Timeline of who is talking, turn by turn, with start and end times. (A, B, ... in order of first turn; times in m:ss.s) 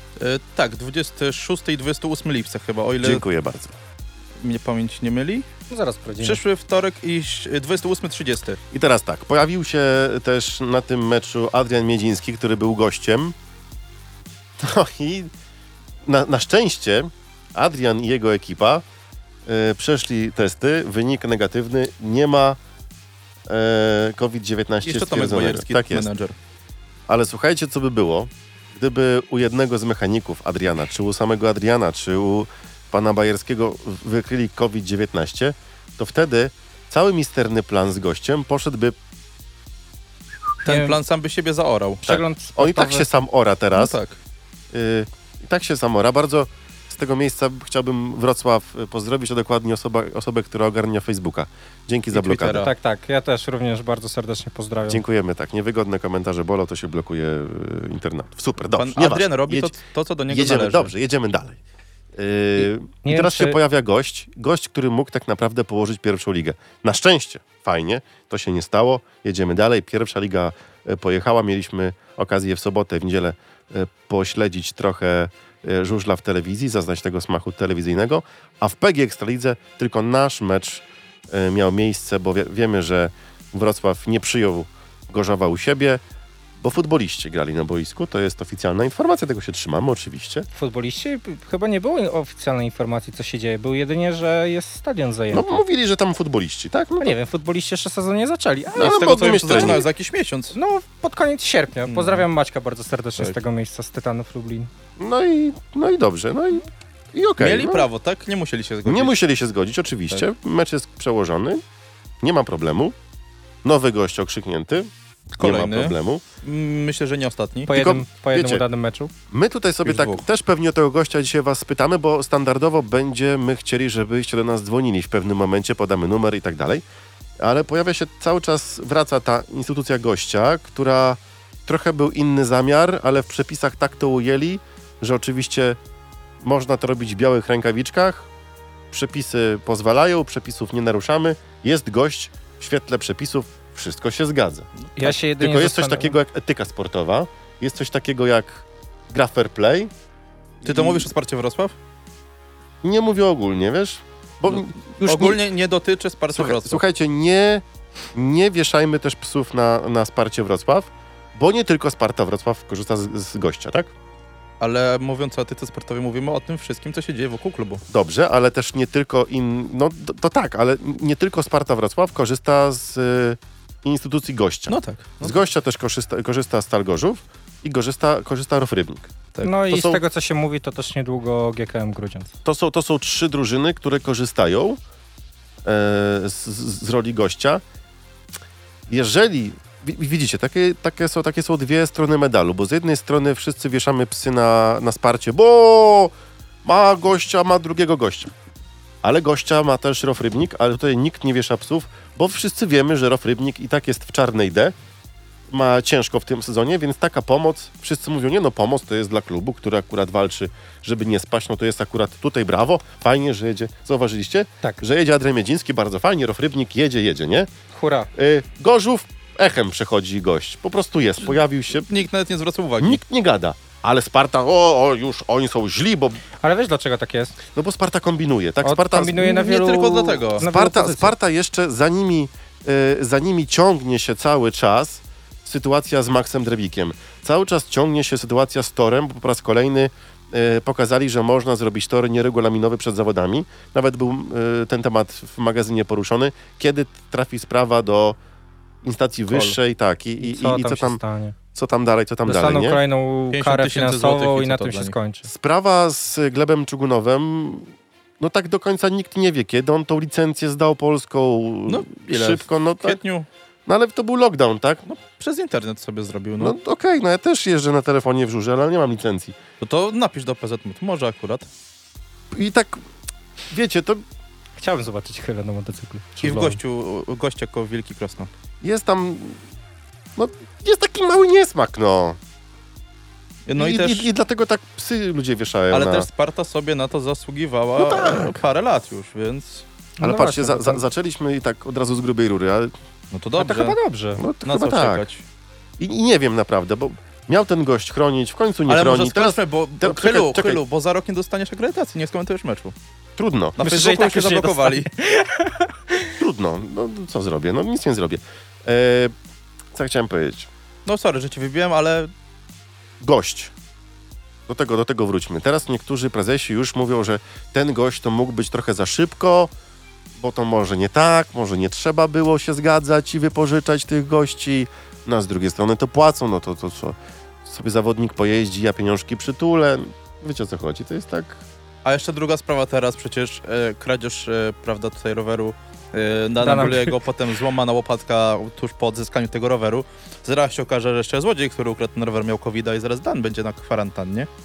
0:00.2-0:03.2 A
0:03.0-0:03.8 B
0:04.4-0:05.4 A
0:05.7-0:06.4 C
0:06.2-0:08.6 A
0:08.7-0:13.3 B
0:14.6-0:15.3 B
0:16.0-0:18.8 B
0:19.4-0:22.6 B
0:23.5-0:26.1 B
0:24.8-0:26.3 A
0:27.1-0:39.0 B
0:40.6-0:42.1 A
0:40.6-0:41.0 C
0:42.0-0:43.1 C
0:42.0-0:44.0 B
0:43.7-0:44.2 A
0:44.7-0:52.7 B
0:52.1-0:52.7 A
0:52.5-0:55.0 C
0:54.9-0:59.8 B
0:58.8-1:00.9 A
1:00.3-1:01.6 B
1:02.1-1:26.0 B
1:02.6-1:03.6 C
1:26.6-1:30.5 B
1:30.5-1:35.6 C
1:35.3-1:37.2 B
1:37.0-1:39.8 C
1:38.7-1:39.8 B
1:38.8-1:40.6 A
1:40.5-1:44.7 C
1:41.9-1:42.2 A
1:45.0-1:47.9 B
1:47.4-1:49.2 A
1:48.8-1:51.6 B
1:52.2-1:52.9 B
1:53.6-1:56.2 B
1:55.4-1:57.7 A
1:57.7-1:59.1 C
1:57.7-1:58.6 B
1:59.3-2:06.8 B
1:59.8-2:00.2 A
2:07.4-2:15.8 B
2:16.4-2:18.3 B
2:18.9-2:29.9 B
2:25.0-2:26.2 C
2:30.6-2:31.1 B
2:30.6-2:31.7 A
2:32.8-2:35.4 B
2:34.5-2:36.8 A
2:36.3-2:43.9 B
2:44.6-2:47.8 A
2:47.9-2:59.1 B
2:54.7-2:55.4 A
2:59.4-3:02.3 C
2:59.7-3:00.0 B
3:02.4-3:04.8 B
3:05.6-3:07.6 B
3:08.9-3:18.3 B
3:19.0-3:24.7 B
3:25.5-3:37.5 B
3:37.7-3:38.1 C
3:38.1-3:41.9 B
3:41.9-3:43.0 A
3:42.8-3:46.2 B
3:46.4-3:47.4 C
3:47.5-3:49.2 B
3:48.6-3:51.1 C
3:49.2-3:50.4 A
3:50.4-4:08.2 B
4:08.8-4:11.0 B
4:10.2-4:11.3 C
4:11.5-4:12.8 B
4:12.2-4:15.3 C
4:13.3-4:14.9 A
4:15.2-4:23.0 B
4:21.7-4:23.3 A
4:23.6-4:24.8 B
4:24.9-4:26.6 A
4:26.4-4:29.3 B
4:29.6-4:31.5 A
4:32.3-4:32.8 B
4:33.5-4:34.0 B
4:34.6-4:36.6 C
4:36.2-4:38.3 A
4:38.6-4:39.4 B
4:40.2-4:42.2 B
4:43.5-4:44.1 A
4:43.6-4:46.1 B
4:45.7-4:49.6 A
4:47.8-4:48.4 B
4:50.0-4:50.8 C
4:50.0-4:52.7 B
4:53.1-4:53.8 A
4:53.4-4:54.2 C
4:54.2-4:55.0 B
4:54.4-4:55.2 A
4:55.8-5:00.6 B
4:58.7-5:02.7 A
5:03.2-5:03.6 B
5:03.6-5:04.9 A
5:03.6-5:06.1 C
5:06.2-5:09.1 B
5:09.7-5:10.5 B
5:10.8-5:12.1 A
5:13.0-5:13.5 B
5:14.5-5:19.5 B
5:20.2-5:31.4 B
5:31.8-5:44.3 A
5:36.4-5:36.9 C